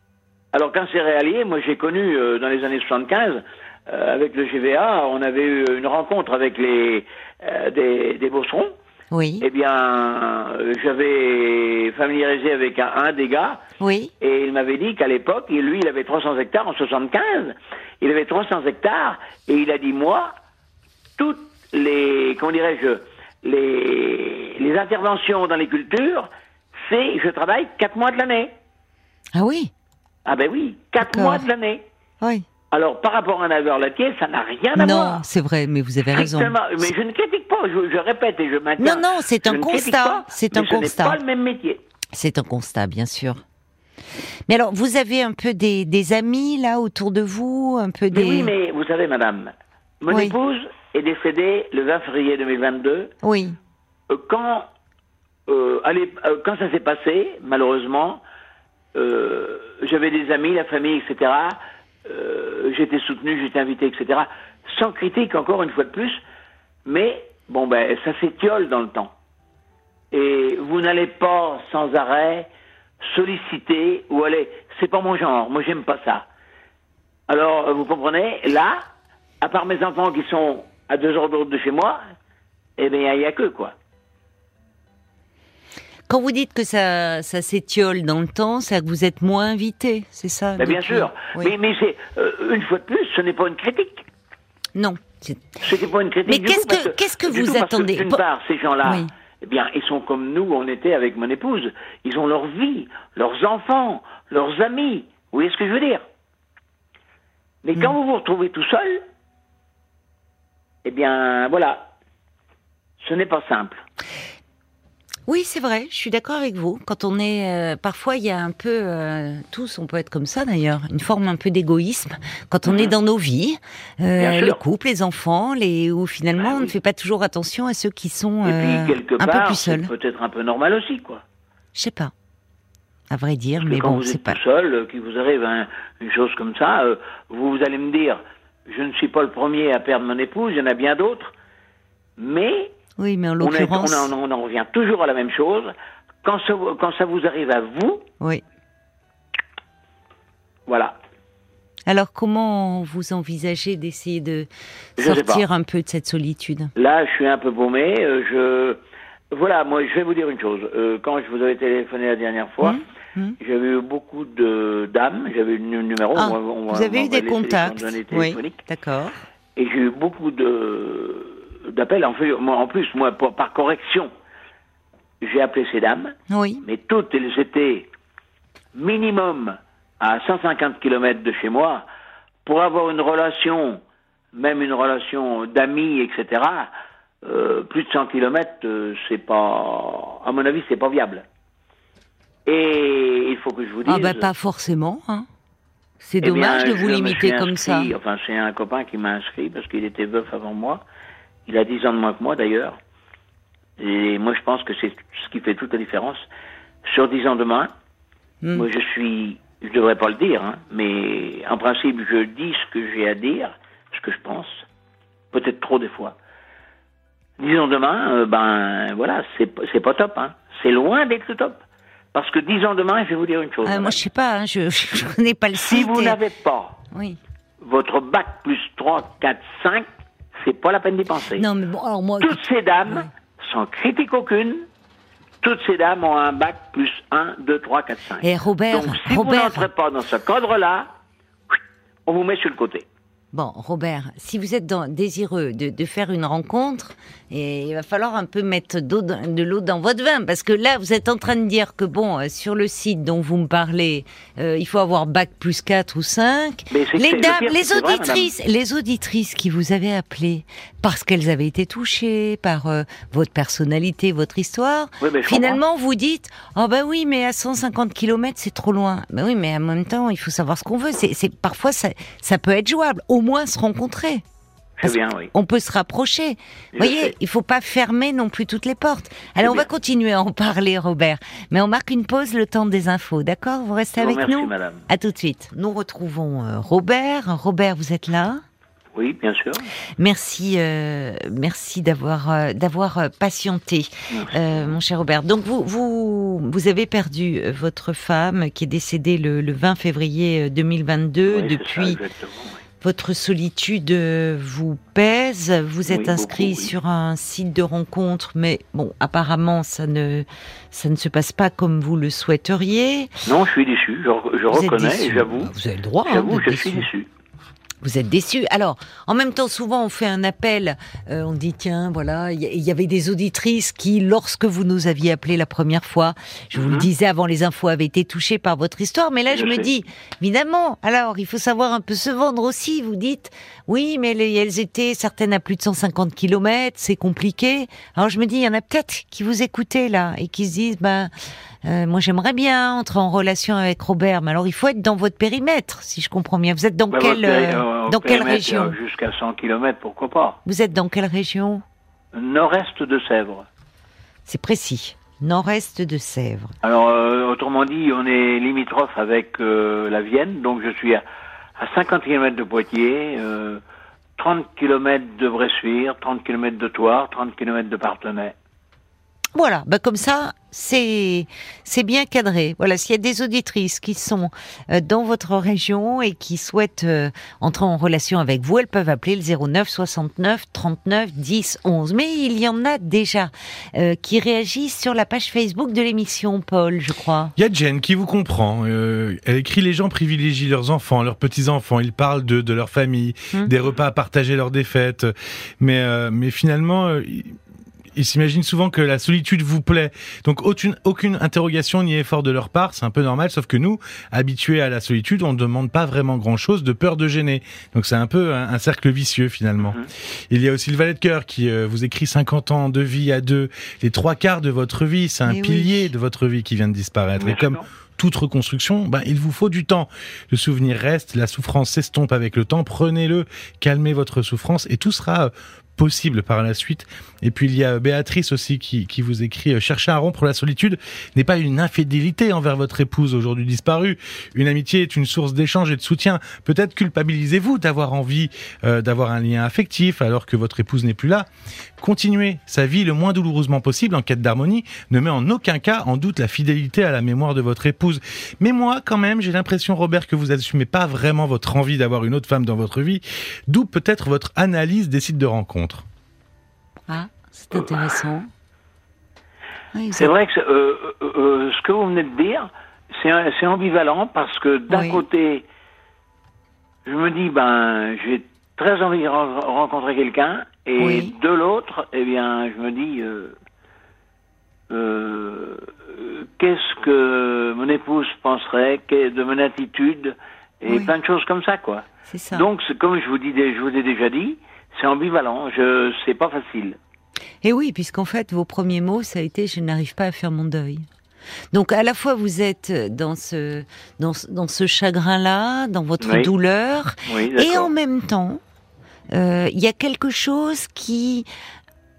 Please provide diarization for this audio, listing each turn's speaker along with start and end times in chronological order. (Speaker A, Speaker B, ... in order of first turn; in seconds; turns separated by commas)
Speaker A: 0.5-8.7, Speaker B: 9.1-9.4, Speaker A: 9.4-13.6, Speaker B: 13.8-14.1, Speaker A: 14.2-20.3, Speaker A: 21.2-26.3, Speaker A: 26.8-28.5, Speaker B: 29.3-29.7, Speaker A: 30.2-31.8, Speaker B: 31.0-31.4, Speaker A: 32.7-35.2, Speaker B: 34.7-36.5, Speaker A: 36.1-41.8, Speaker B: 38.8-41.2, Speaker B: 42.1-43.4, Speaker B: 44.5-48.5, Speaker A: 48.1-53.1, Speaker B: 50.1-50.3, Speaker B: 53.2-53.6, Speaker A: 54.1-54.7, Speaker A: 55.5-58.2, Speaker A: 58.9-66.2, Speaker A: 66.8-69.1, Speaker A: 70.1-72.5, Speaker A: 73.0-76.3, Speaker A: 77.3-78.9, Speaker A: 79.4-82.0, Speaker A: 82.8-83.8, Speaker B: 86.1-91.5, Speaker A: 90.6-94.0, Speaker B: 94.7-95.5, Speaker A: 95.6-106.0, Speaker B: 96.2-98.2, Speaker B: 98.8-99.1, Speaker A: 107.6-109.0, Speaker A: 110.8-111.9, Speaker A: 113.0-113.8, Speaker B: 115.3-129.9, Speaker A: 122.6-122.9, Speaker A: 124.2-124.6, Speaker A: 126.4-126.7, Speaker A: 128.4-131.2, Speaker B: 131.7-132.1, Speaker B: 133.1-134.4, Speaker A: 133.6-141.3, Speaker A: 142.2-142.7, Speaker B: 143.0-144.1, Speaker A: 143.4-148.1, Speaker A: 150.7-151.0, Speaker B: 151.9-156.7, Speaker A: 155.0-155.4, Speaker A: 156.7-162.8, Speaker B: 162.6-163.3, Speaker A: 163.4-168.6, Speaker B: 166.1-169.2, Speaker A: 169.6-174.1, Speaker A: 175.2-177.9, Speaker B: 176.3-176.6, Speaker A: 178.7-181.8, Speaker A: 182.4-183.8, Speaker A: 184.3-186.7, Speaker A: 187.2-191.2, Speaker A: 192.4-194.3, Speaker B: 193.8-195.3, Speaker B: 196.0-197.9, Speaker A: 196.2-200.8, Speaker A: 201.4-202.8, Speaker A: 203.8-206.3, Speaker A: 206.8-207.7, Speaker A: 208.5-214.6, Speaker A: 215.3-216.2, Speaker A: 217.4-221.6, Speaker A: 222.1-224.0, Speaker B: 223.6-226.2, Speaker A: 225.5-226.8, Speaker B: 226.9-227.2, Speaker A: 227.6-231.4, Speaker B: 231.3-233.1, Speaker A: 232.2-234.7, Speaker A: 235.4-240.9, Speaker B: 238.2-239.7, Speaker A: 241.5-242.9, Speaker B: 243.3-274.2, Speaker A: 256.7-258.3, Speaker A: 265.0-265.6, Speaker A: 274.8-275.3, Speaker B: 274.8-288.4, Speaker A: 276.7-277.1, Speaker A: 279.4-279.7, Speaker A: 284.0-284.9, Speaker A: 288.9-289.7, Speaker B: 290.0-302.0, Speaker A: 294.1-294.8, Speaker A: 301.3-302.6, Speaker B: 302.8-313.1, Speaker A: 305.9-306.7, Speaker A: 313.2-315.5, Speaker B: 314.5-316.9, Speaker A: 316.1-317.1, Speaker B: 317.8-341.1, Speaker A: 326.5-326.9, Speaker A: 329.3-329.7, Speaker B: 341.6-348.8, Speaker A: 346.9-350.4, Speaker B: 350.4-351.6, Speaker A: 352.1-353.5, Speaker B: 354.2-356.5, Speaker A: 356.6-361.0, Speaker A: 361.6-363.6, Speaker A: 364.2-368.4, Speaker B: 369.3-387.3, Speaker C: 387.4-397.4, Speaker C: 397.9-441.3, Speaker A: 409.6-409.9, Speaker B: 415.3-415.9, Speaker A: 417.2-417.6, Speaker C: 441.8-455.9, Speaker B: 456.9-458.3, Speaker B: 459.7-460.1, Speaker A: 459.9-465.4, Speaker B: 464.7-465.0, Speaker A: 466.8-473.4, Speaker B: 470.8-471.1, Speaker A: 474.7-486.8, Speaker B: 480.7-480.9, Speaker B: 482.1-482.5, Speaker B: 487.4-490.9, Speaker B: 491.5-498.4, Speaker A: 496.0-496.3, Speaker A: 497.1-497.7, Speaker B: 499.1-501.3